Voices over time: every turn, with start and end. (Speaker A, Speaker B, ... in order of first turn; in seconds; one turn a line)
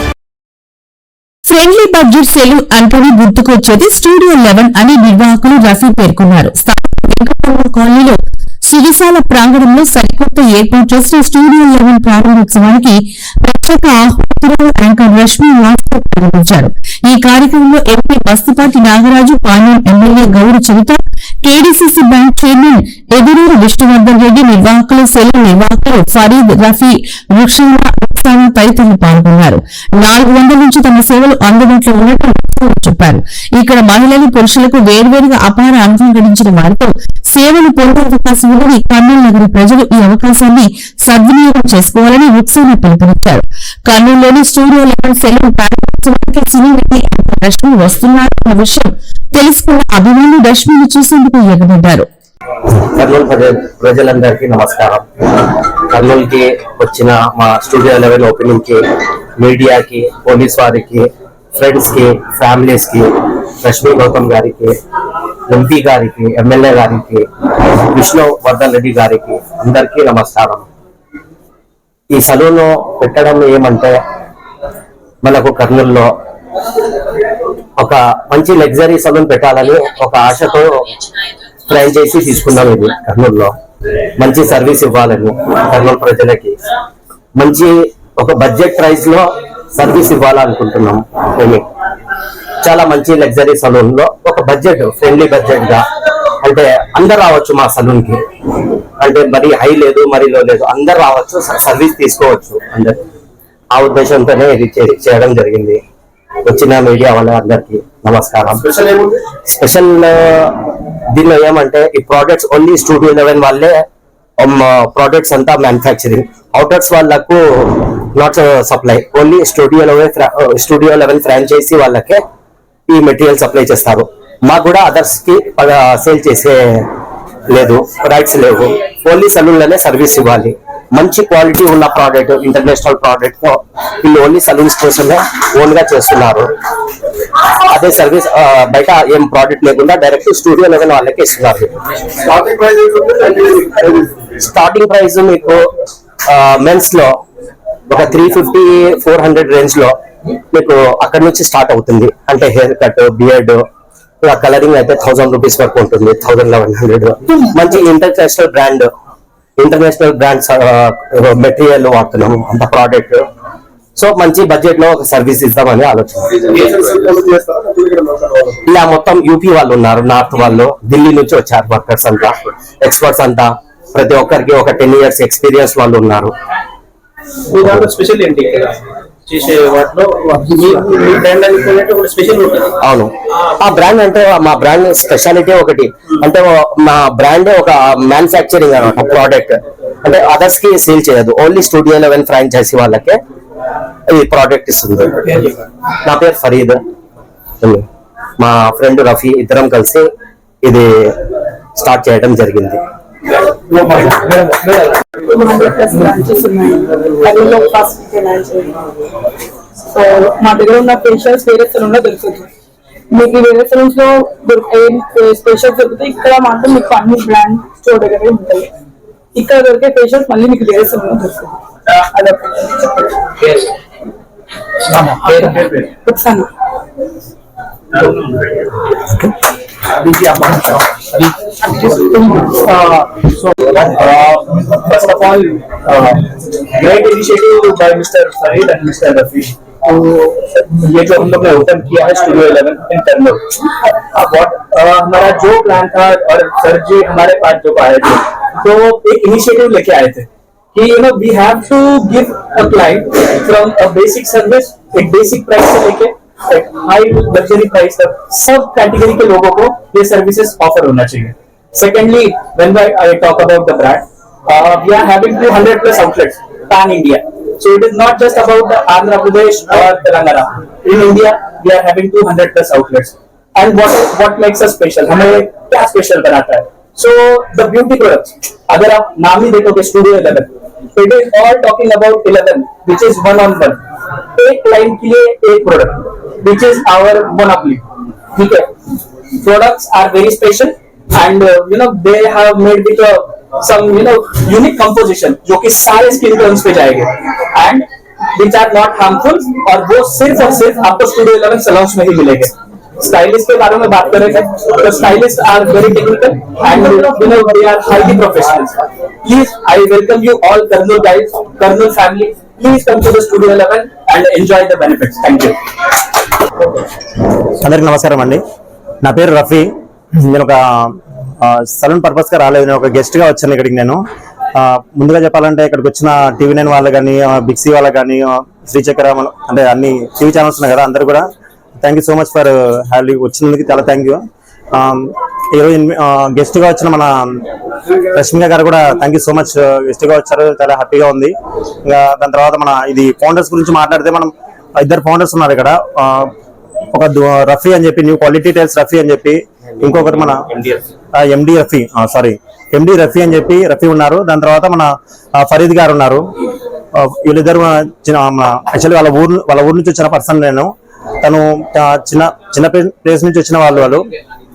Speaker A: 1.5-52.1
Speaker B: 52.8-55.0
Speaker B: 55.9-58.8
Speaker B: 59.4-63.1
Speaker B: 63.6-64.7
Speaker B: 65.5-70.7
Speaker B: 72.1-74.0
Speaker B: 75.2-76.1
Speaker B: 77.8-80.7
Speaker B: 81.7-83.5
Speaker B: 84.2-86.5
Speaker B: 87.3-91.7
Speaker B: 92.6-95.8
Speaker B: 96.4-98.2
Speaker B: 99.0-103.0
Speaker B: 103.7-105.8
Speaker B: 106.4-108.6
Speaker B: 109.5-110.5
Speaker B: 111.1-113.7
Speaker B: 114.4-122.2
Speaker B: 122.9-126.9
Speaker B: 127.5-136.5
Speaker B: 137.5-141.7
Speaker C: 142.3-143.5
Speaker B: 144.4-145.6
Speaker B: 146.3-147.1
Speaker B: 147.9-149.9
Speaker B: 150.5-153.6
Speaker B: 154.2-158.9
Speaker B: 159.6-163.2
Speaker B: 163.9-166.9
Speaker C: 166.9-167.9
Speaker B: 168.7-176.3
Speaker B: 177.6-177.9
Speaker D: 177.6-178.8
Speaker D: 179.3-182.7
Speaker B: 182.8-193.2
Speaker B: 194.1-195.4
Speaker B: 196.0-196.8
Speaker B: 198.4-200.1
Speaker B: 200.6-200.9
Speaker B: 201.8-202.8
Speaker D: 203.8-204.7
Speaker E: 205.2-208.8
Speaker E: 209.9-212.5
Speaker E: 213.1-218.7
Speaker E: 219.3-221.6
Speaker D: 221.9-222.2
Speaker D: 224.9-225.9
Speaker E: 225.9-226.5
Speaker D: 227.9-228.2
Speaker D: 229.9-231.0
Speaker E: 231.6-232.0
Speaker D: 232.1-283.8
Speaker D: 284.3-287.8
Speaker D: 288.3-288.7
Speaker D: 289.4-315.6
Speaker F: 317.6-318.4
Speaker F: 319.0-319.7
Speaker F: 320.2-324.0
Speaker F: 324.5-331.2
Speaker F: 331.8-334.2
Speaker F: 334.7-337.4
Speaker F: 338.1-341.3
Speaker F: 341.8-346.3
Speaker F: 346.9-350.4
Speaker B: 349.8-350.8
Speaker F: 351.1-356.2
Speaker F: 356.9-360.7
Speaker F: 361.2-364.1